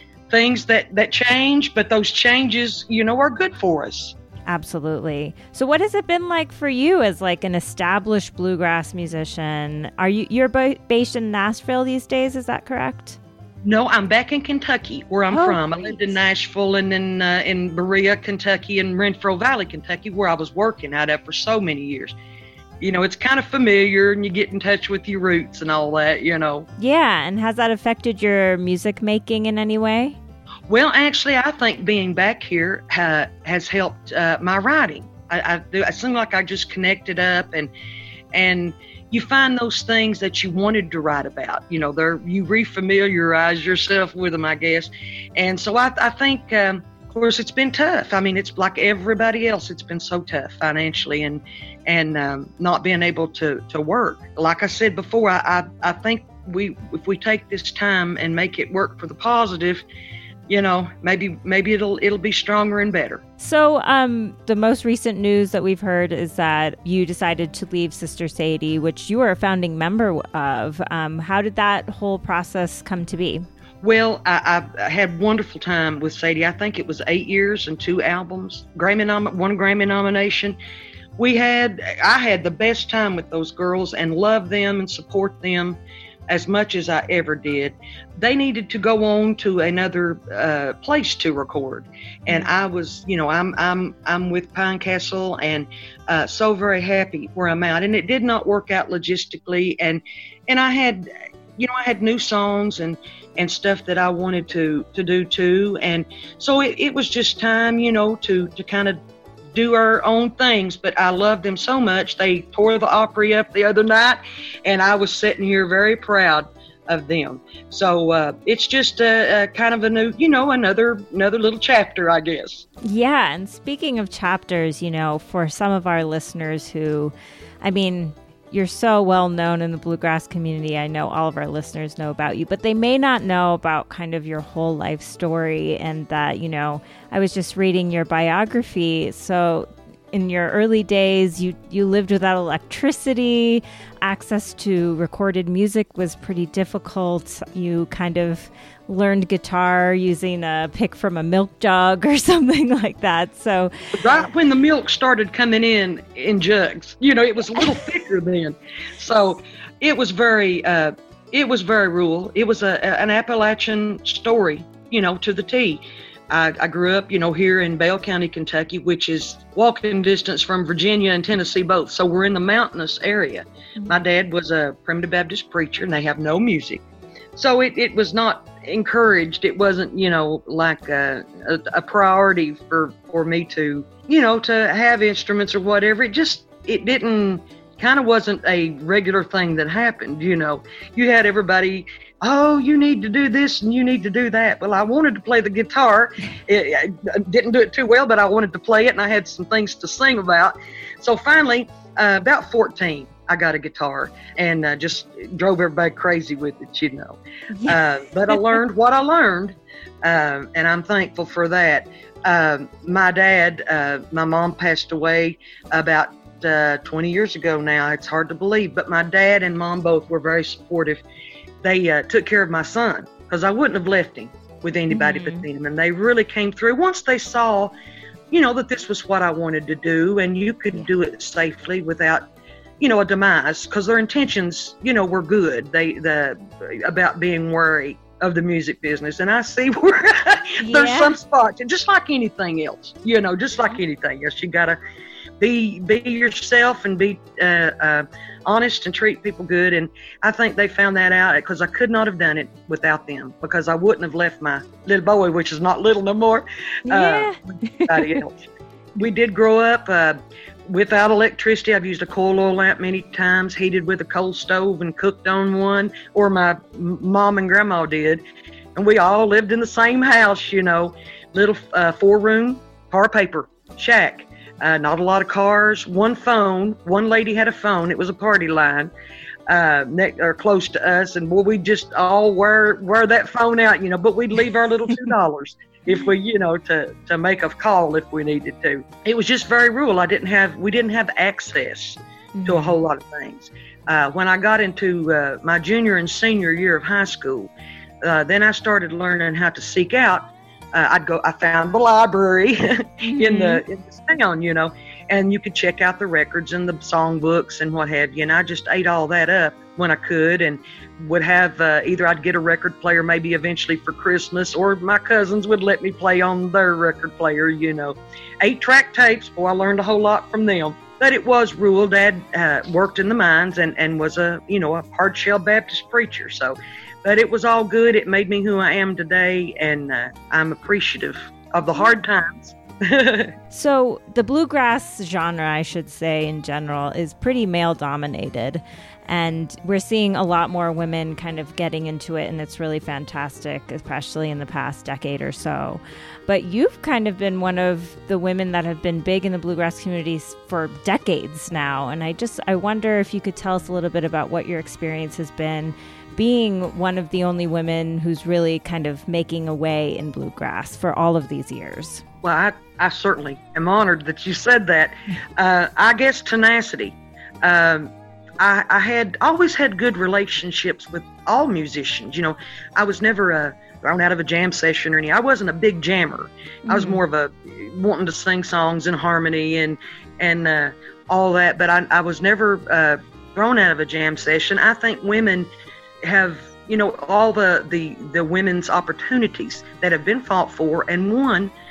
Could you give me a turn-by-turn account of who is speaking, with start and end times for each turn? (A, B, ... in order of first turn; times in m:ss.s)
0:00.3-0:04.2 A
0:04.5-0:13.2 B
0:13.6-0:22.2 A
0:15.3-0:16.2 B
0:22.8-0:26.7 A
0:26.8-0:30.2 B
0:30.7-0:37.7 A
0:38.3-0:59.8 A
1:00.5-1:03.2 A
1:03.4-1:13.5 B
1:13.8-1:20.6 A
1:21.2-1:49.0 A
1:49.5-2:02.7 A
2:02.8-2:33.7 B
2:34.0-2:56.8 A
2:57.4-3:41.0 A
3:27.5-3:27.8 B
3:28.3-3:28.6 B
3:41.6-3:47.7 A
3:44.9-3:45.5 B
3:48.3-3:52.2 A
3:52.8-4:04.8 A
4:00.6-4:01.2 B
4:05.4-4:17.3 A
4:16.9-4:18.2 B
4:17.9-4:18.4 A
4:19.0-4:28.2 A
4:28.8-4:38.9 A
4:39.5-4:57.5 A
4:52.4-4:52.8 B
4:58.0-5:33.3 A
5:03.0-5:03.6 B
5:33.5-6:02.0 B
6:02.2-6:25.5 A
6:16.7-6:17.0 B
6:26.1-6:31.5 A